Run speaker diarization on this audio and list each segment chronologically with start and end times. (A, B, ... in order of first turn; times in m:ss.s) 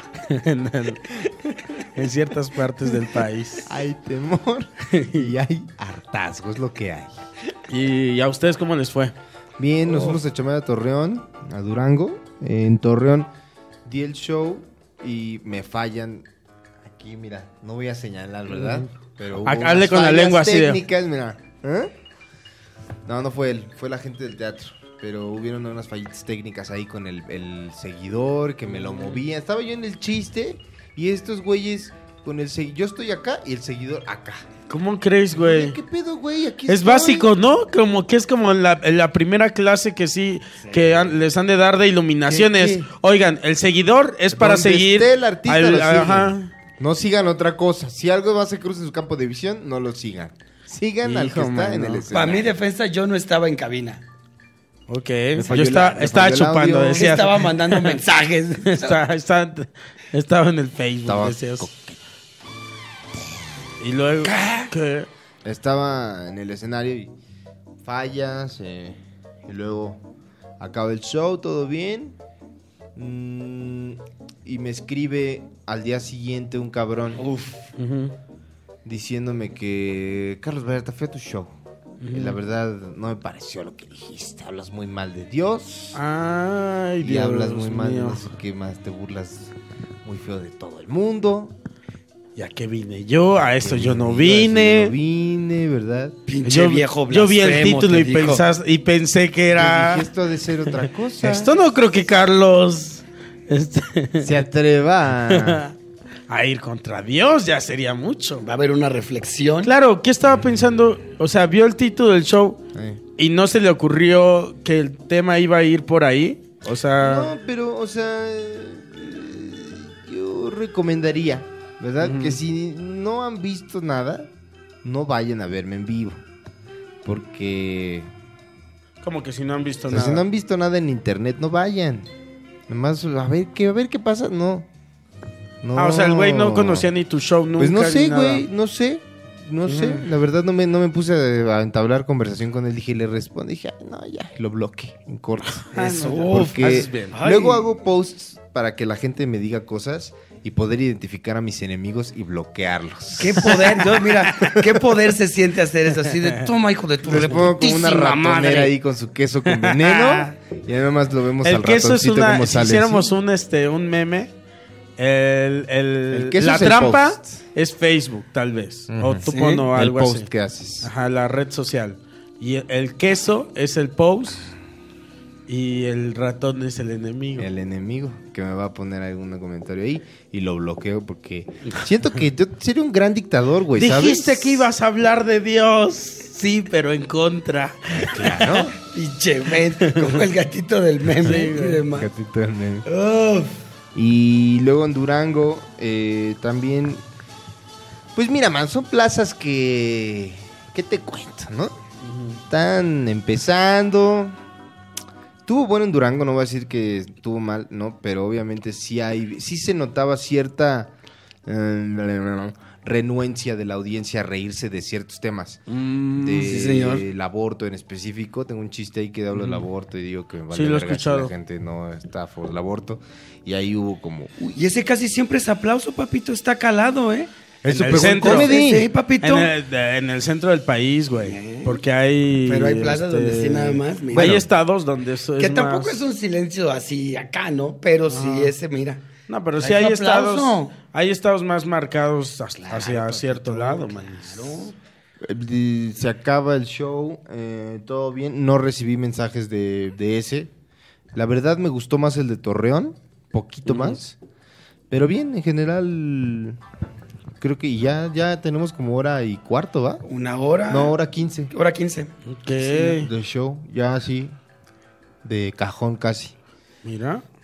0:00.3-0:03.7 A
0:03.6-0:07.1 B
0:04.9-0:05.3 A
0:07.7-0:09.2 A
0:09.6-0:13.3 B
0:13.8-0:16.3 B
0:16.8-0:21.9 B
0:18.6-0:18.9 A
0:19.4-0:20.8 A
0:23.1-0:34.5 B
0:28.7-0:29.2 A
0:34.7-0:35.8 A
0:35.3-0:37.3 B
0:36.7-0:46.5 A
0:40.7-0:41.1 B
0:42.3-0:42.9 B
0:44.3-0:52.5 B
0:51.0-0:52.1 A
0:52.1-0:54.0 C
0:54.9-0:58.0 A
0:55.4-0:57.2 B
0:56.9-0:59.0 C
0:58.7-1:01.7 A
1:01.1-1:02.0 B
1:03.8-1:05.1 A
1:04.3-1:04.7 C
1:05.4-1:07.1 B
1:07.8-1:10.0 B
1:10.6-1:12.2 B
1:13.0-1:17.2 B
1:17.2-1:17.6 C
1:17.8-1:18.2 A
1:18.8-1:21.5 B
1:22.0-1:22.4 A
1:22.1-1:26.0 B
1:25.9-1:28.2 A
1:27.0-1:31.5 B
1:32.4-1:35.0 A
1:33.6-1:36.2 B
1:36.3-1:38.4 C
1:36.4-1:40.1 A
1:39.6-1:41.6 B
1:40.7-1:44.4 A
1:44.2-1:45.6 B
1:45.3-1:45.7 A
1:46.3-1:48.4 A
1:48.4-1:49.7 C
1:49.6-1:52.6 A
1:52.7-1:53.0 B
1:53.2-1:57.3 A
1:57.0-2:04.3 B
2:02.0-2:02.4 A
2:04.8-2:06.2 B
2:07.0-2:08.1 B
2:09.0-2:10.2 A
2:09.9-2:12.1 B
2:12.7-2:14.7 B
2:15.6-2:16.9 B
2:15.8-2:18.4 A
2:17.6-2:33.8 B
2:19.7-2:20.1 A
2:25.6-2:27.2 A
2:25.7-2:27.6 C
2:33.2-2:38.7 C
2:33.4-2:34.6 A
2:37.0-2:43.1 B
2:39.5-2:40.3 A
2:41.4-2:44.3 A
2:45.0-2:50.3 A
2:46.1-2:47.4 B
2:48.9-2:50.9 B
2:49.2-2:49.7 C
2:50.8-2:54.5 A
2:55.5-2:57.5 A
2:57.4-3:04.7 B
3:03.8-3:08.7 A
3:08.0-3:08.8 B
3:08.8-3:12.1 C
3:09.9-3:10.2 A
3:11.2-3:11.8 A
3:11.9-3:12.8 B
3:12.8-3:13.5 C
3:14.0-3:17.0 B
3:18.2-3:21.7 B
3:22.5-3:24.4 B
3:25.5-3:30.9 B
3:31.5-3:35.6 B
3:35.7-3:36.6 A
3:36.2-3:44.4 B
3:36.4-3:37.0 C
3:39.3-3:39.6 A
3:40.5-3:41.3 A
3:44.4-3:47.3 C
3:47.6-3:48.9 B
3:47.7-3:48.6 A
3:47.8-3:49.5 C
3:49.2-3:56.0 A
3:51.2-3:51.8 C
3:52.5-3:54.5 C
3:55.4-3:59.1 C
3:58.1-3:58.5 A
3:59.3-4:04.7 A
3:59.6-4:00.8 C
4:02.6-4:04.8 C
4:05.2-4:10.5 B
4:11.2-4:14.2 B
4:13.7-4:14.0 A
4:14.9-4:16.6 B
4:17.4-4:20.0 B
4:20.0-4:21.0 C
4:20.7-4:21.5 B
4:21.5-4:22.1 C
4:22.3-4:23.1 A
4:22.8-4:24.4 B
4:25.2-4:26.3 B
4:26.8-4:27.2 A